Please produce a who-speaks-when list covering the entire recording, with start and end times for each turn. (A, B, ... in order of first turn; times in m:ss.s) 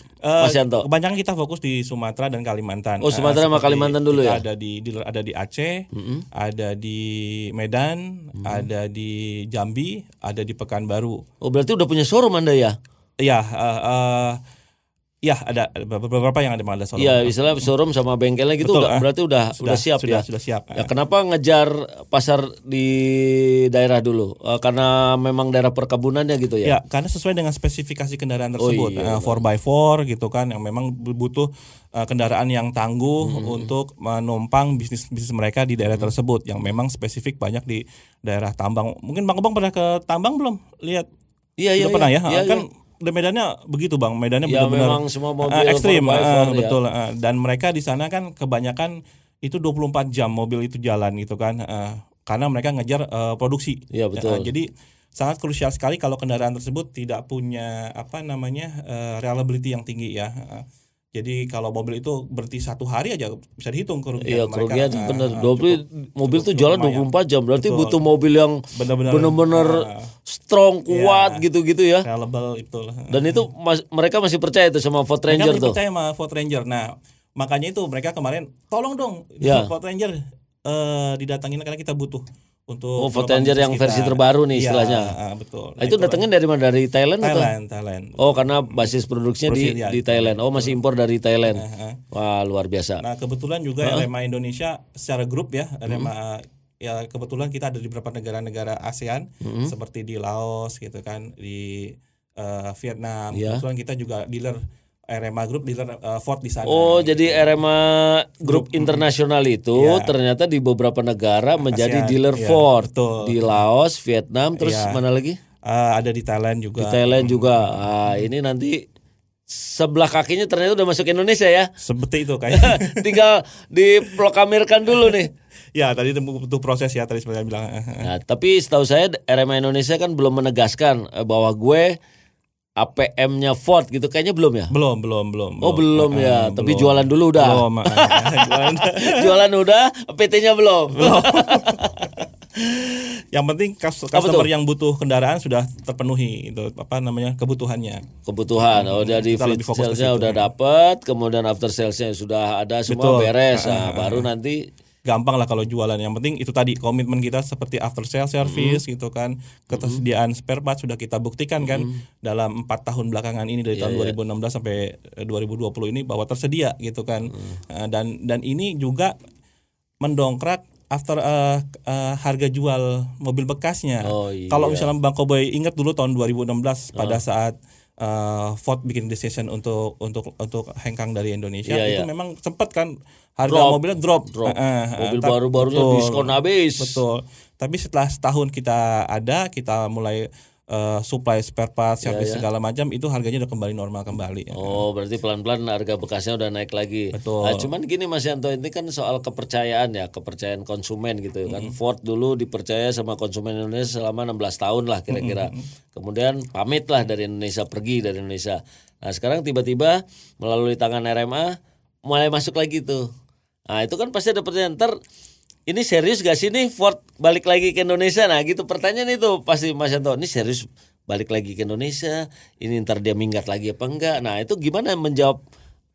0:00.2-0:11.2 A
0:00.4-0:00.8 B
0:03.0-0:04.4 B
0:05.9-0:06.2 B
0:08.4-0:08.6 B
0:11.4-0:12.8 B
0:13.2-0:14.4 A
0:15.2-0:17.7 A
0:17.0-0:20.2 B
0:18.6-0:19.0 A
0:19.6-0:20.9 A
0:20.7-0:26.8 B
0:26.6-0:41.1 A
0:28.6-0:29.4 B
0:33.2-0:33.7 B
0:41.6-0:42.6 B
0:41.8-1:00.6 A
0:44.4-0:46.8 B
0:53.9-0:54.5 B
1:01.1-1:07.1 A
1:04.2-1:12.1 B
1:07.6-1:08.0 A
1:08.7-1:10.1 A
1:10.9-1:11.4 A
1:12.0-1:13.5 A
1:13.1-1:15.8 B
1:15.3-1:26.2 A
1:19.4-1:19.7 B
1:23.0-1:25.1 B
1:25.8-1:27.5 B
1:27.2-1:28.9 A
1:28.2-1:33.0 B
1:29.4-1:30.8 A
1:31.5-1:32.0 A
1:33.0-1:47.6 A
1:39.4-1:39.7 B
1:43.3-1:43.6 B
1:46.6-1:55.4 B
1:48.4-1:49.0 A
1:49.7-1:50.1 A
1:51.6-1:53.5 A
1:54.6-1:55.0 A
1:55.6-1:58.3 A
1:56.8-1:58.8 B
1:59.5-2:01.7 B
2:01.8-2:03.2 A
2:02.5-2:05.3 B
2:04.9-2:05.2 A
2:05.7-2:08.1 A
2:08.0-2:12.0 B
2:12.8-2:14.7 B
2:14.7-2:19.4 A
2:15.6-2:22.2 B
2:20.9-2:22.2 A
2:23.3-2:28.1 A
2:24.1-2:24.5 B
2:28.2-2:34.7 B
2:28.7-2:30.5 A
2:32.9-2:34.3 A
2:35.0-2:49.1 A
2:38.4-2:38.8 B
2:39.7-2:40.0 B
2:41.6-2:42.0 B
2:43.7-2:44.1 B
2:50.0-3:14.8 A
2:54.0-2:54.9 B
2:56.9-2:57.2 B
3:01.6-3:02.1 B
3:03.5-3:07.0 B
3:12.0-3:12.4 B
3:14.5-3:33.1 B
3:17.1-3:17.7 A
3:21.5-3:21.7 A
3:25.1-3:25.6 A
3:33.7-3:34.9 B
3:35.7-3:45.4 B